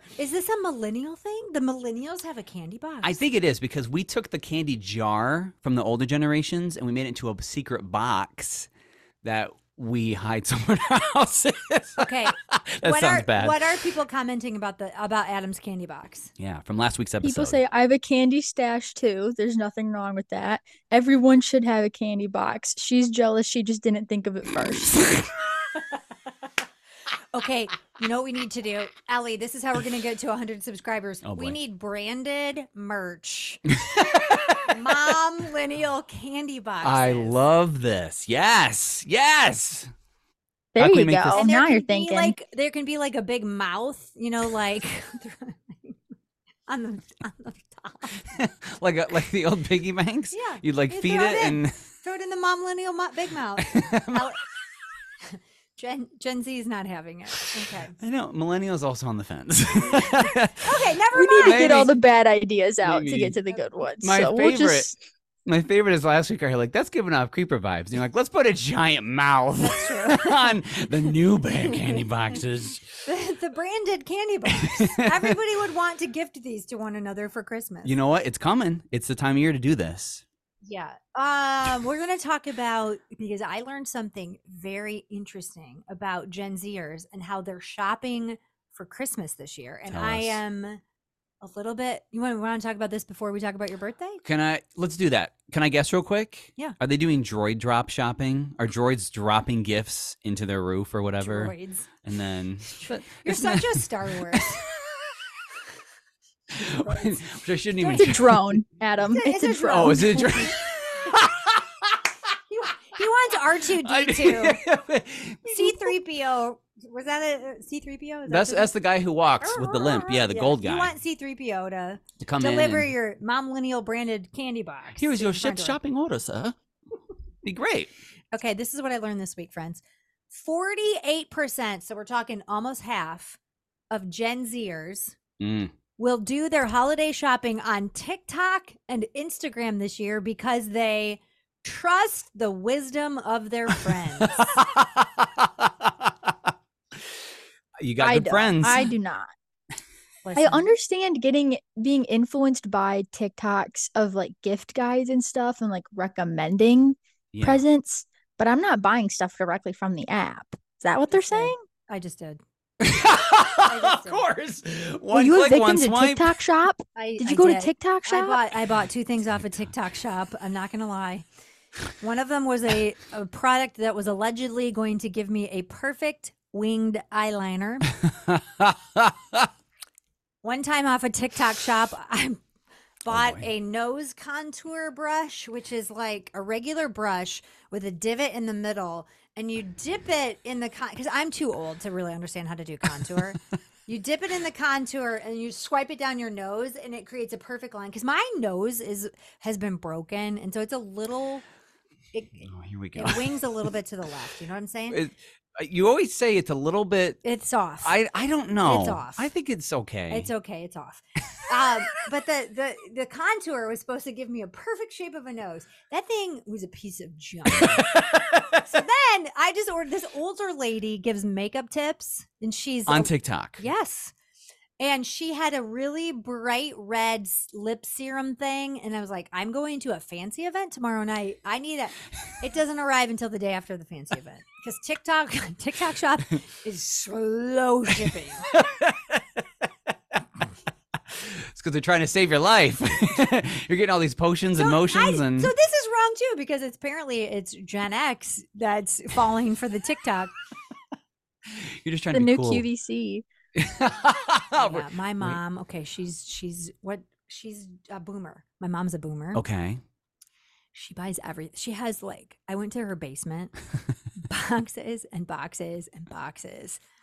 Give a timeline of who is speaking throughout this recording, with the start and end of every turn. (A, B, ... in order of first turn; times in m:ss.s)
0:00.2-0:03.1 A
0:03.0-0:08.7 B
0:09.2-0:13.7 B
0:12.0-0:16.3 A
0:16.4-0:17.6 B
0:17.2-0:25.1 C
0:27.3-0:33.7 A
0:31.2-0:31.6 B
0:33.7-0:34.8 B
0:34.6-0:37.4 A
0:36.8-0:39.9 B
0:40.8-0:42.4 C
0:40.8-0:41.4 B
0:41.3-0:46.1 A
0:46.7-0:48.4 A
0:48.4-0:51.9 B
0:50.3-0:54.4 A
0:53.7-0:54.2 B
0:55.2-0:58.0 A
0:58.0-1:01.9 B
1:00.6-1:01.9 A
1:01.1-1:05.0 C
1:02.8-1:03.4 B
1:04.0-1:04.9 B
1:05.5-1:13.0 B
1:09.6-1:11.1 A
1:11.7-1:12.0 A
1:13.0-1:18.0 A
1:14.6-1:15.4 B
1:17.8-1:20.2 B
1:20.6-1:30.8 A
1:29.9-1:30.4 B
1:31.4-1:34.2 A
1:34.2-1:44.6 B
1:41.2-1:41.9 A
1:42.7-1:44.6 A
1:46.6-1:48.4 B
1:46.6-1:47.2 A
1:47.8-1:48.2 A
1:47.9-1:50.3 C
1:49.0-1:50.6 A
1:49.7-1:52.0 B
1:52.5-1:54.6 A
1:53.8-1:55.9 B
1:55.5-1:58.7 A
1:58.3-2:01.0 B
1:59.4-2:05.8 A
2:02.2-2:02.9 B
2:05.0-2:06.6 B
2:07.4-2:07.9 B
2:08.3-2:13.4 A
2:13.9-2:15.2 A
2:15.4-2:15.7 B
2:16.0-2:24.4 A
2:24.2-2:26.3 B
2:27.8-2:28.8 B
2:28.0-2:29.3 C
2:30.2-2:30.7 A
2:30.4-2:41.6 C
2:37.3-2:37.6 B
2:41.1-2:42.4 A
2:42.8-2:46.3 B
2:43.6-2:44.3 A
2:45.1-2:48.4 C
2:47.0-2:51.2 A
2:52.0-2:57.9 A
2:58.1-2:59.5 B
3:00.4-3:02.4 A
3:03.0-3:21.4 A
3:03.1-3:03.4 B
3:22.1-3:25.0 A
3:22.5-3:23.3 B
3:24.9-3:27.2 B
3:27.2-3:28.0 A
3:27.8-3:30.3 B
3:28.6-3:29.3 A
3:30.1-3:37.9 A
3:37.7-3:38.4 B
3:38.5-3:44.1 A
3:42.9-3:43.6 B
3:44.8-3:58.5 A
3:58.5-3:59.2 B
4:01.1-4:05.5 B
4:04.6-4:10.3 A
4:11.6-4:12.7 B
4:12.1-4:13.2 C
4:13.6-4:15.4 B
4:14.6-4:19.4 A
4:19.3-4:19.8 B
4:20.7-4:23.6 A
4:24.2-4:26.8 A